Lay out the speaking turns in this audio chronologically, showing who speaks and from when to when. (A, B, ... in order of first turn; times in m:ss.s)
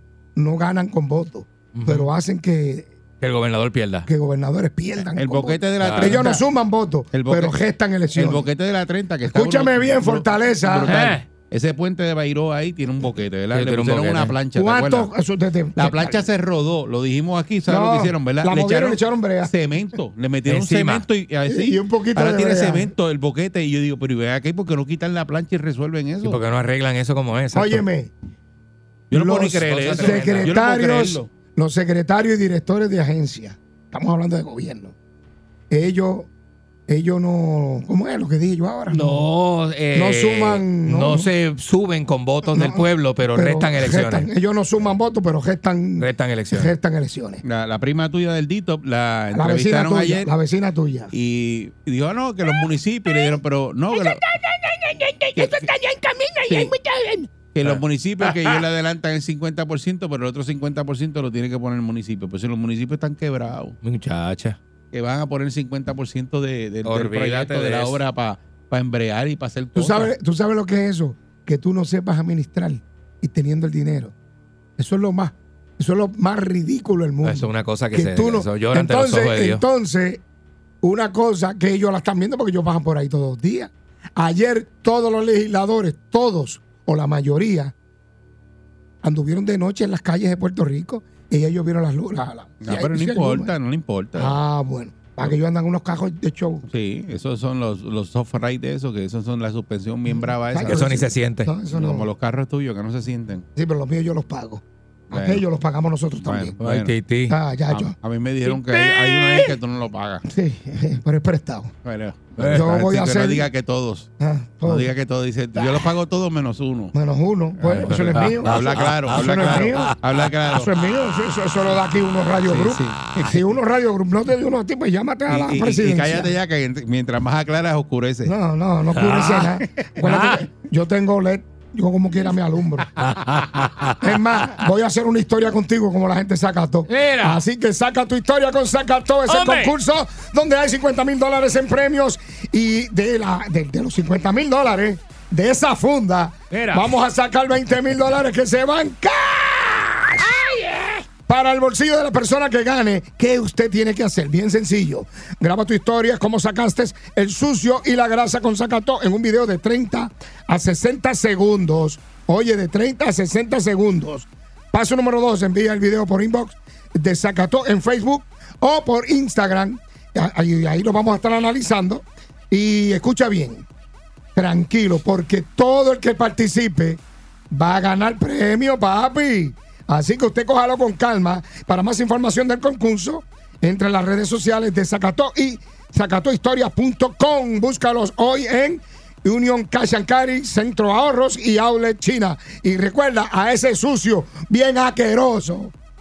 0:00.4-0:02.9 A
0:01.7-0:02.1 B
0:03.2-0:04.1 B
0:04.1-0:08.5 A
0:05.2-0:06.4 C
0:05.8-0:06.2 B
0:07.1-0:07.6 C
0:08.1-0:15.1 C
0:09.3-0:10.9 A
0:10.9-0:11.2 B
0:13.5-0:14.4 B
0:14.5-0:16.3 A
0:15.8-0:26.4 C
0:17.7-0:19.5 A
0:20.5-0:21.1 B
0:21.5-0:22.9 A
0:26.2-0:27.8 B
0:27.5-0:28.1 A
0:29.1-0:31.3 C
0:29.1-0:34.9 A
0:29.7-0:30.6 B
0:35.7-0:36.3 A
0:36.9-0:39.3 A
0:38.9-0:44.3 B
0:39.9-0:41.3 A
0:42.5-0:47.4 A
0:46.0-0:46.7 B
0:47.4-0:50.3 C
0:49.3-0:51.1 A
0:51.1-0:54.2 C
0:53.1-0:53.4 A
0:53.9-0:57.3 A
0:55.4-0:55.7 C
0:56.5-0:56.8 C
0:57.5-1:03.8 C
0:57.6-0:58.6 B
1:03.8-1:04.6 B
1:04.9-1:10.1 C
1:06.8-1:08.0 B
1:09.8-1:14.1 A
1:14.8-1:20.2 A
1:17.2-1:19.6 B
1:20.8-1:27.7 A
1:29.0-1:33.6 A
1:32.6-1:34.4 C
1:34.2-1:36.7 A
1:36.7-1:41.1 C
1:40.1-1:42.1 A
1:40.6-1:41.5 B
1:41.7-1:43.5 C
1:43.6-1:46.6 A
1:45.1-1:45.4 C
1:46.2-1:47.0 C
1:46.6-1:47.4 B
1:47.3-1:48.0 A
1:47.7-1:50.2 C
1:48.7-1:49.5 A
1:50.3-1:51.7 A
1:51.8-1:54.1 C
1:52.4-1:52.7 B
1:52.5-1:53.5 A
1:54.2-1:54.9 A
1:54.7-1:56.9 C
1:55.6-1:55.8 A
1:56.9-2:06.3 A
1:57.6-2:00.7 C
1:57.7-2:00.0 B
2:02.5-2:03.3 C
2:05.3-2:08.4 C
2:08.3-2:12.9 A
2:09.0-2:09.5 B
2:10.0-2:10.4 B
2:13.0-2:14.0 B
2:14.0-2:30.5 A
2:16.9-2:17.4 B
2:19.3-2:19.7 B
2:26.5-2:26.9 B
2:30.4-2:30.9 B
2:31.1-2:53.7 A
2:54.4-3:15.7 A